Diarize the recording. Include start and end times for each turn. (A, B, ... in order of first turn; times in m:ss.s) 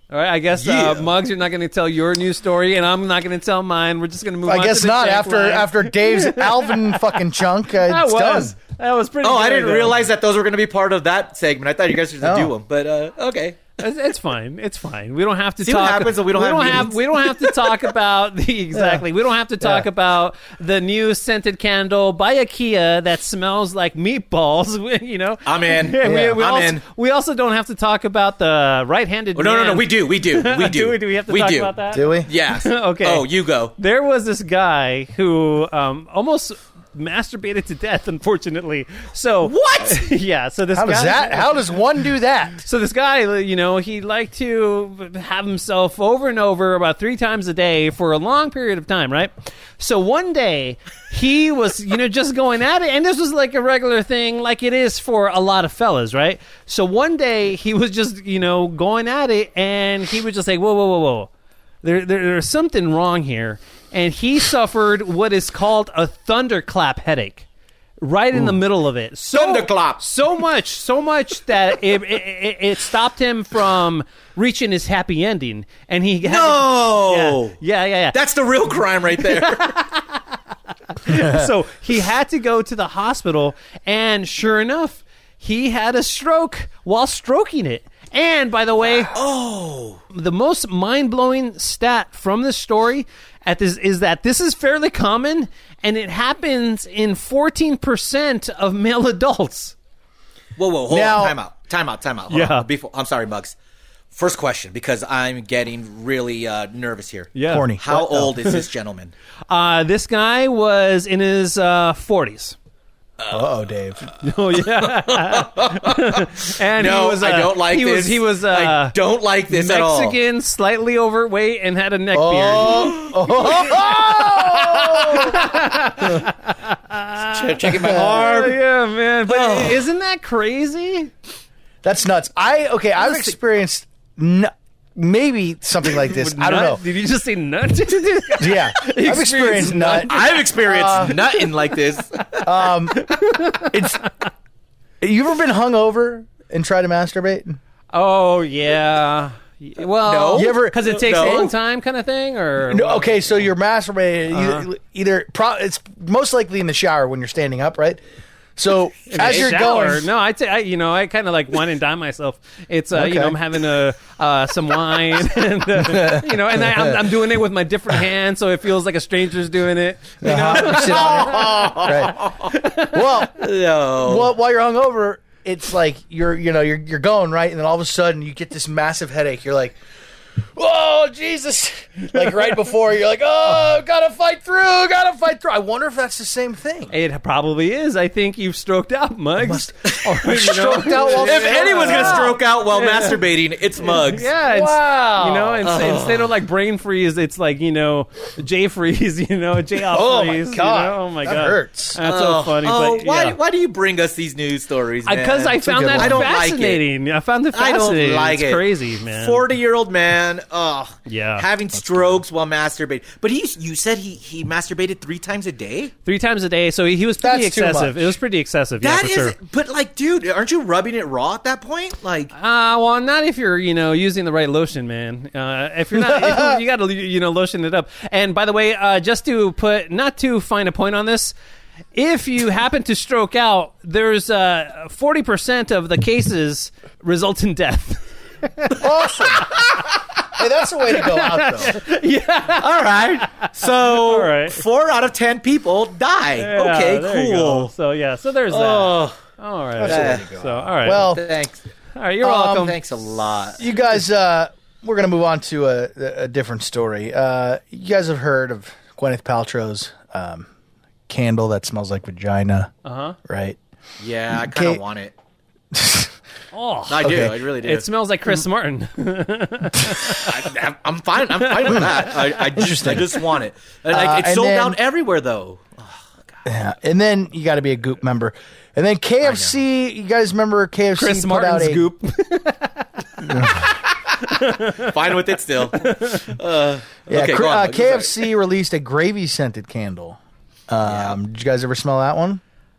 0:00.1-0:07.0 A
0:00.6-0:01.1 B
0:04.5-0:08.6 C
0:07.7-0:10.0 A
0:09.2-0:13.7 B
0:12.2-0:12.5 C
0:13.8-0:41.6 A
0:15.6-0:17.6 B
0:18.7-0:19.0 C
0:19.6-0:19.9 C
0:25.5-0:26.8 B
0:26.0-0:26.4 C
0:29.4-0:31.7 B
0:31.9-0:32.3 C
0:32.2-0:33.7 B
0:39.4-0:40.1 B
0:40.7-0:42.6 C
0:42.6-1:01.3 A
1:01.8-1:07.5 A
1:08.0-1:18.2 A
1:09.3-1:10.0 B
1:16.2-1:17.6 B
1:18.1-1:19.7 B
1:19.2-1:20.2 A
1:21.0-1:29.1 A
1:29.1-1:30.0 B
1:30.1-1:39.8 A
1:40.6-1:43.6 B
1:40.9-1:41.4 C
1:42.3-1:42.7 A
1:44.1-1:49.1 B
1:47.4-1:47.7 A
1:47.5-1:48.4 C
1:49.5-1:52.6 A
1:53.2-1:53.5 B
1:53.3-1:54.1 C
1:54.2-1:59.0 A
1:54.9-1:56.2 B
1:56.8-2:00.2 B
1:59.5-2:11.1 A
2:02.1-2:05.4 C
2:07.3-2:08.6 B
2:08.0-2:08.2 C
2:09.3-2:09.8 B
2:11.8-2:16.8 C
2:13.0-2:13.3 B
2:16.0-2:20.4 A
2:18.4-2:21.2 C
2:20.0-2:22.4 B
2:22.4-2:23.0 C
2:23.0-2:24.0 A
2:23.7-2:24.0 C
2:25.0-2:27.6 C
2:27.9-2:33.5 A
2:30.0-2:31.5 B
2:30.3-2:30.8 C
2:32.7-2:38.0 C
2:34.3-2:34.7 A
2:38.6-2:40.0 C
2:39.1-2:51.9 A
2:39.2-2:39.6 B
2:42.9-2:43.4 C
2:45.8-2:47.0 C
2:50.2-2:52.2 C
2:50.8-2:52.1 B
2:52.4-2:53.0 A
2:52.9-2:53.4 C
2:53.4-2:54.3 B
2:54.0-2:59.8 C
3:00.6-3:06.9 C
3:06.9-3:13.2 A
3:09.4-3:12.4 C
3:11.0-3:14.3 B
3:13.9-3:23.4 A
3:14.4-3:15.6 C
3:15.6-3:16.3 B
3:19.9-3:22.0 C
3:22.0-3:26.8 B
3:25.1-3:29.4 A
3:25.6-3:26.3 C
3:27.5-3:35.9 B
3:31.1-3:31.4 A
3:31.8-3:32.2 C
3:36.0-3:39.4 A
3:37.2-3:38.2 C
3:38.8-3:42.3 B
3:42.3-3:51.3 A
3:46.0-3:46.6 C
3:52.0-3:58.8 A
3:58.8-3:59.6 C
4:00.3-4:01.8 C
4:00.9-4:04.6 A
4:02.5-4:07.7 B
4:06.4-4:11.1 A
4:08.5-4:09.2 B
4:09.8-4:11.3 C
4:09.8-4:10.3 B
4:10.9-4:11.6 B
4:12.0-4:12.8 A
4:12.3-4:13.6 B
4:13.6-4:20.5 C
4:21.1-4:22.7 C
4:22.8-4:23.2 A
4:23.3-4:23.6 C
4:24.0-4:25.1 B
4:24.4-4:24.8 C
4:25.7-4:26.1 C
4:26.5-4:30.3 A
4:26.9-4:27.9 B
4:27.0-4:27.4 C
4:30.3-4:36.0 B
4:31.5-4:32.1 A
4:31.7-4:33.1 C
4:33.9-4:34.8 C
4:36.4-4:41.9 C
4:39.2-4:39.6 B
4:41.0-4:43.7 A
4:43.3-4:43.6 C
4:44.2-4:44.9 A
4:44.8-4:48.3 B
4:45.7-4:46.2 A
4:47.1-4:52.4 C
4:50.9-4:51.2 B